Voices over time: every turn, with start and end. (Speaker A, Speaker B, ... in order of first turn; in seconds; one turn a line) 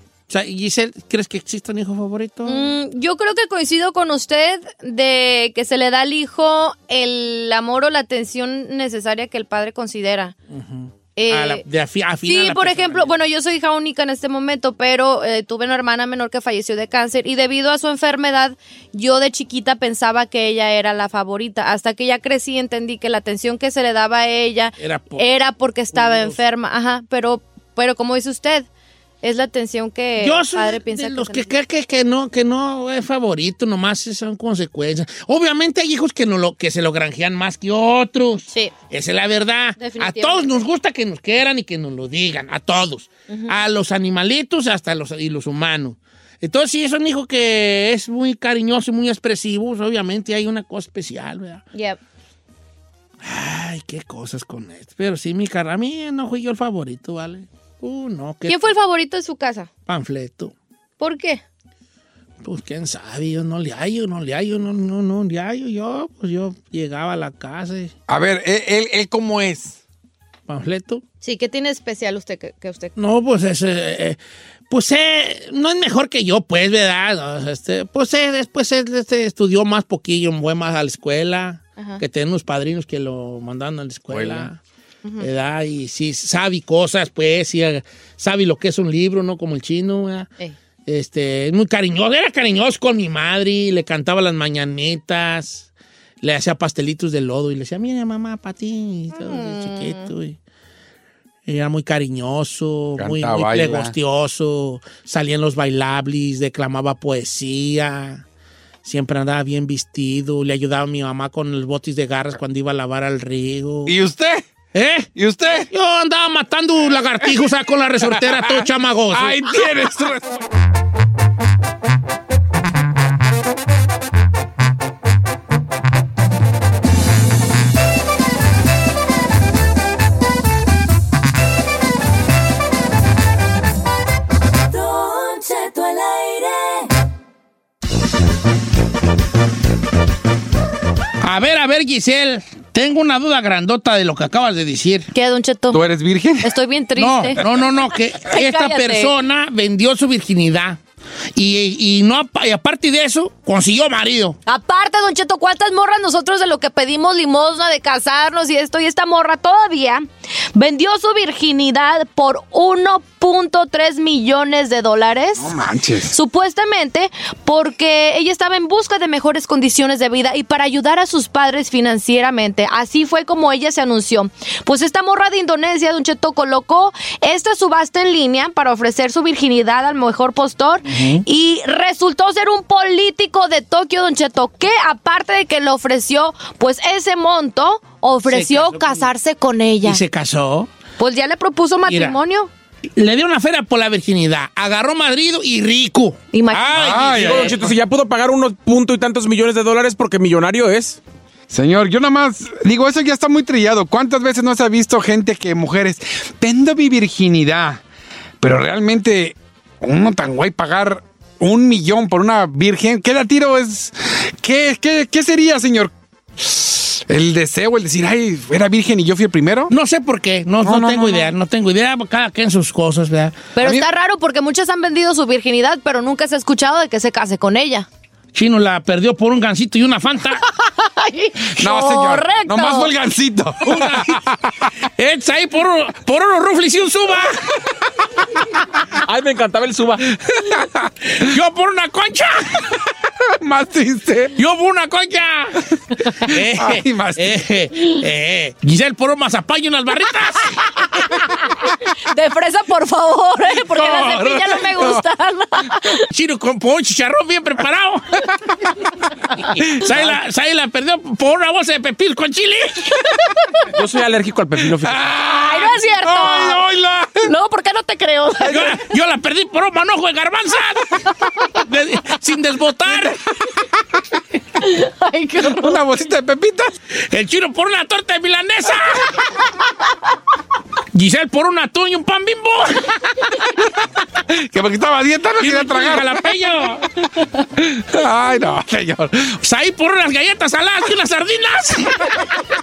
Speaker A: 0.3-2.7
Speaker B: 2.5-10.3
Speaker A: 10.5-13.1
Speaker B: 11.2-11.6
Speaker B: 12.3-28.7
Speaker A: 24.8-25.2
Speaker A: 25.9-26.4
Speaker B: 29.2-31.5
Speaker A: 30.2-51.6
Speaker B: 39.8-40.6
Speaker B: 43.3-43.5
Speaker A: 53.2-58.7
Speaker B: 58.5-59.7
Speaker A: 59.9-60.5
Speaker B: 61.0-61.4
Speaker A: 62.4-67.9
Speaker C: 68.1-69.8
Speaker A: 70.5-71.0
Speaker B: 71.2-72.9
Speaker A: 73.0-74.2
Speaker A: 74.7-84.6
Speaker B: 81.8-82.0
Speaker C: 84.1-84.5
Speaker A: 85.2-90.3
Speaker A: 90.9-95.7
Speaker A: 96.2-100.4
Speaker B: 99.1-100.1
Speaker A: 101.5-108.2
Speaker C: 103.0-104.0
Speaker A: 108.8-113.9
Speaker C: 113.9-114.5
Speaker A: 114.7-115.1
Speaker C: 115.2-115.7
Speaker A: 115.7-119.4
Speaker C: 118.1-120.4
Speaker D: 134.7-136.9
Speaker A: 141.2-145.1
Speaker B: 145.1-145.8
Speaker C: 145.7-146.5
Speaker B: 146.4-147.4
Speaker A: 147.0-150.8
Speaker B: 148.3-149.1
Speaker A: 151.3-154.4
Speaker B: 154.4-165.5
Speaker C: 165.4-166.1
Speaker B: 166.1-190.0
Speaker A: 180.9-181.2
Speaker A: 188.3-189.1
Speaker A: 189.8-190.7
Speaker B: 191.0-192.5
Speaker A: 191.9-192.2
Speaker A: 193.0-197.7
Speaker B: 196.3-196.7
Speaker C: 196.7-197.6
Speaker E: 197.3-201.0
Speaker C: 201.5-207.8
Speaker C: 208.4-219.7
Speaker A: 219.7-223.5
Speaker C: 220.6-221.3
Speaker B: 223.6-227.9
Speaker C: 223.6-223.9
Speaker A: 228.3-230.4
Speaker B: 230.8-232.9
Speaker C: 231.6-234.5
Speaker A: 233.6-234.2
Speaker A: 235.0-237.4
Speaker E: 239.1-240.0
Speaker C: 240.1-240.9
Speaker A: 241.2-242.6
Speaker C: 243.4-244.4
Speaker A: 244.4-245.6
Speaker A: 246.2-251.1
Speaker C: 246.3-247.3
Speaker B: 252.1-256.1
Speaker C: 253.7-255.0
Speaker A: 256.1-258.2
Speaker A: 259.6-263.0
Speaker C: 259.8-260.1
Speaker E: 263.8-265.0
Speaker C: 264.6-265.6
Speaker B: 265.4-266.6
Speaker C: 266.1-267.2
Speaker A: 266.2-266.5
Speaker B: 267.2-268.7
Speaker A: 268.4-270.9
Speaker A: 271.6-273.2
Speaker B: 274.7-275.8
Speaker C: 275.4-276.7
Speaker A: 277.1-279.1
Speaker A: 280.9-282.9
Speaker C: 284.3-286.2
Speaker A: 285.4-286.9
Speaker C: 287.6-289.4
Speaker A: 289.4-292.1